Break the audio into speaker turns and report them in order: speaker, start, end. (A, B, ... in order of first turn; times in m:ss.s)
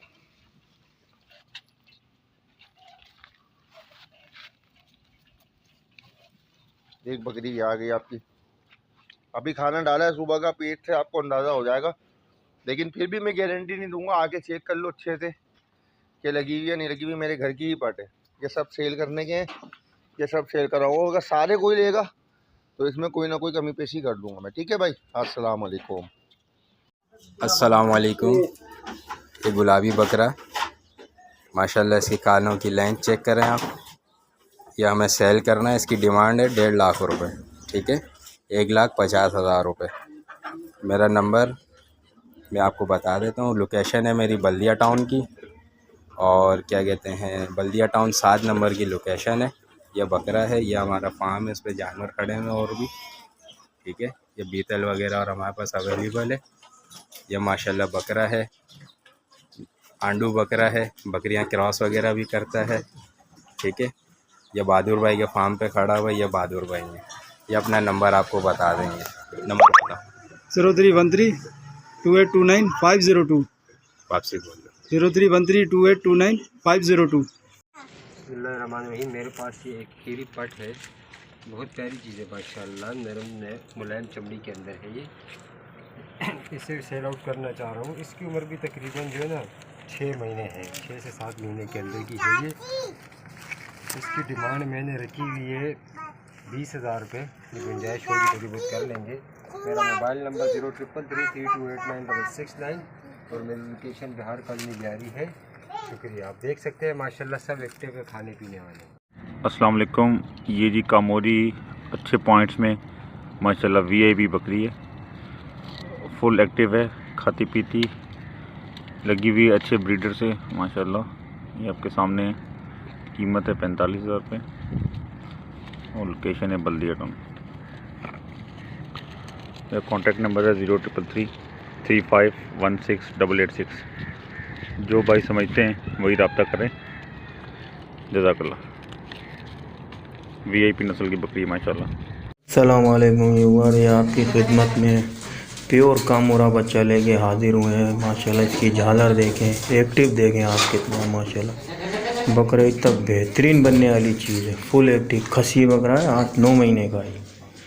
0:07.0-0:08.2 A
0:09.3-0:11.9 A
0:12.6-0:15.3 A
0:16.2-0:19.5 A
0:20.2-0:22.1 A
0:22.8-0:26.1 A
0:27.4-0:28.5 B
0:29.4-0:30.4 B
0:31.5-0:33.7 B
0:34.8-0:39.9 B
0:40.8-0:41.6 B
0:42.5-0:45.2 B
0:46.2-0:52.9 B
0:53.8-0:56.4 B
0:57.3-0:58.5 B
1:00.0-1:02.8 B
1:03.6-1:03.9 B
1:04.5-1:10.0 B
1:10.5-1:11.3 C
1:12.0-1:13.4 C
1:14.1-1:14.7 B
1:14.9-1:17.3 C
1:18.3-1:20.8 D
1:21.5-1:25.1 D
1:26.3-1:32.6 D
1:33.9-1:35.8 D
1:36.5-1:45.3 D
1:45.8-1:48.9 D
1:49.4-1:52.8 E
1:53.4-1:54.7 E
1:56.0-1:57.9 E
1:59.0-2:02.4 E
2:03.1-2:04.4 E
2:05.9-2:07.2 E
2:09.7-2:11.3 E
2:11.8-2:13.8 E
2:14.8-2:16.7 E
2:18.1-2:18.6 E
2:20.4-2:21.9 E
2:22.5-2:25.0 F
2:25.7-2:31.6 F
2:32.3-2:37.2 F